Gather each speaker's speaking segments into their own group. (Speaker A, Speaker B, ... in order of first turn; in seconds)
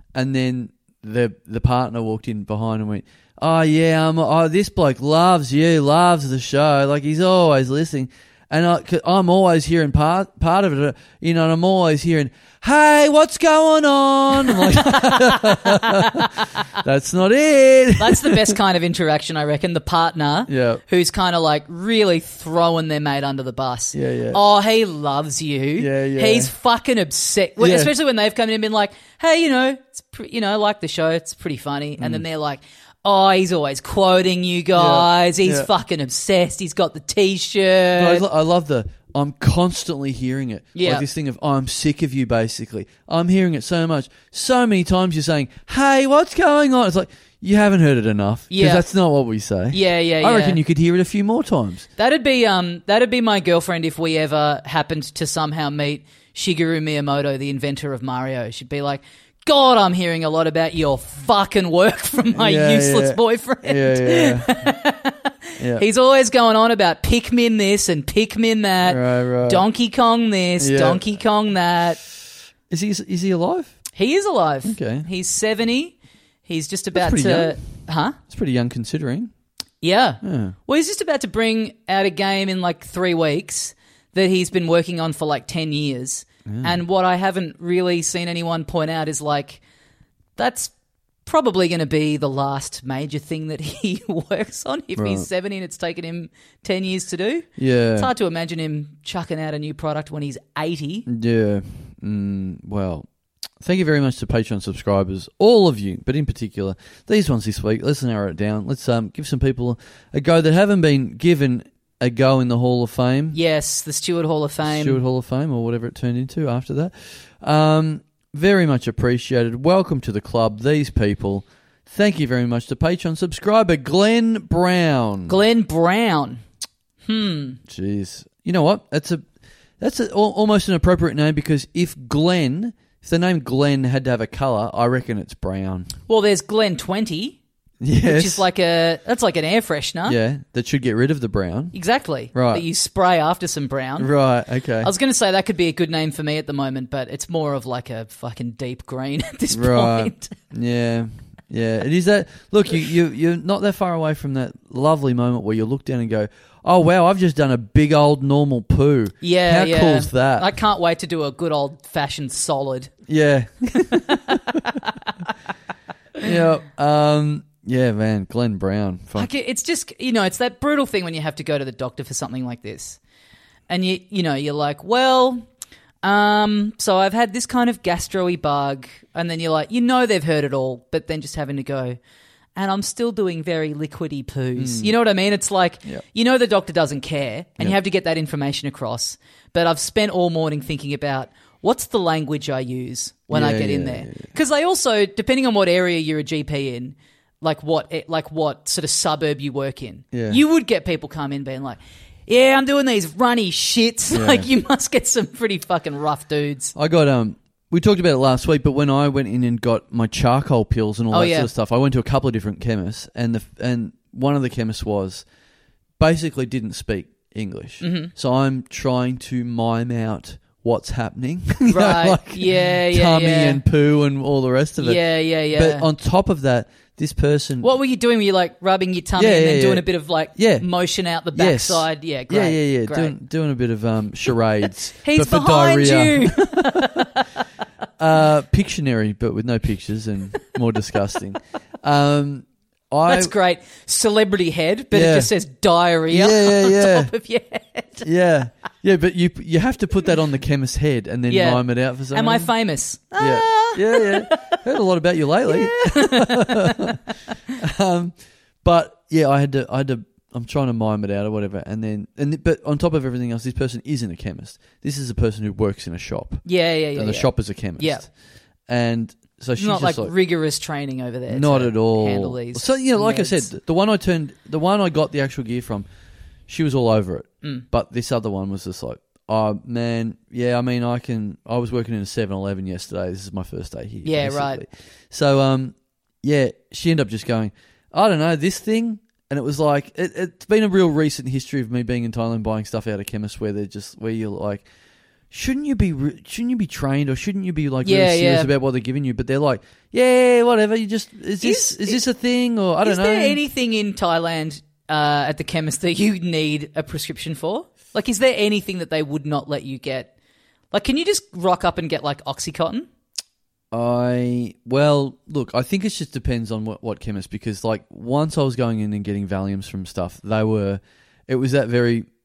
Speaker A: 0.1-18.6, 20.5-20.8, 23.9-24.4, 25.8-26.5, 27.6-27.9, 34.8-35.7, 38.0-51.9, 62.4-64.7, 65.6-65.8, 68.8-69.7, 70.6-71.0, 72.7-73.8, 74.7-75.1, 76.9-77.6, 78.3-79.3, 80.2-80.5, 86.5-86.8, 95.0-95.3, 97.6-98.1, 101.1-103.1, 103.6-113.4, 114.6-125.4, 127.7-129.2, 129.8-135.9, 137.8-138.4, 140.1-141.8, 142.3-142.7, 144.0-144.9, 149.5-160.5, 163.1-164.6, 166.2-169.3, 184.6-184.9, 193.3-194.3, 200.1-200.4, 204.1-204.5, 206.8-215.2, 216.0-227.7, 229.2-230.7, 231.3-237.0, 238.0-243.3, 244.9-245.3, 246.1-247.1, 248.0-252.5, 253.2-257.0, 257.6-268.1, 268.7-270.1, 271.3-275.9, 276.5-294.7, 295.3-303.4, 313.7-322.1
Speaker B: 14.5-16.4, 18.0-38.2, 40.8-41.0, 48.5-48.9, 49.7-50.6, 52.0-72.0, 74.0-78.2, 79.8-89.6, 90.4-90.7, 91.2-101.1, 113.3-115.0, 125.3-126.4, 127.0-127.6, 136.1-137.4, 138.0-140.2, 141.7-144.1, 144.8-150.4, 159.2-162.9, 163.9-165.1, 169.2-173.0, 173.7-175.4, 176.0-182.0, 182.6-206.7, 211.1-211.5, 217.8-218.1, 221.7-223.6, 224.8-225.9, 227.6-233.2, 235.0-237.3, 243.1-248.1, 251.3-254.6, 255.5-257.0, 266.4-268.1, 269.6-273.5, 284.1-284.6, 297.8-298.5, 301.4-302.0, 302.8-310.1, 310.7-312.9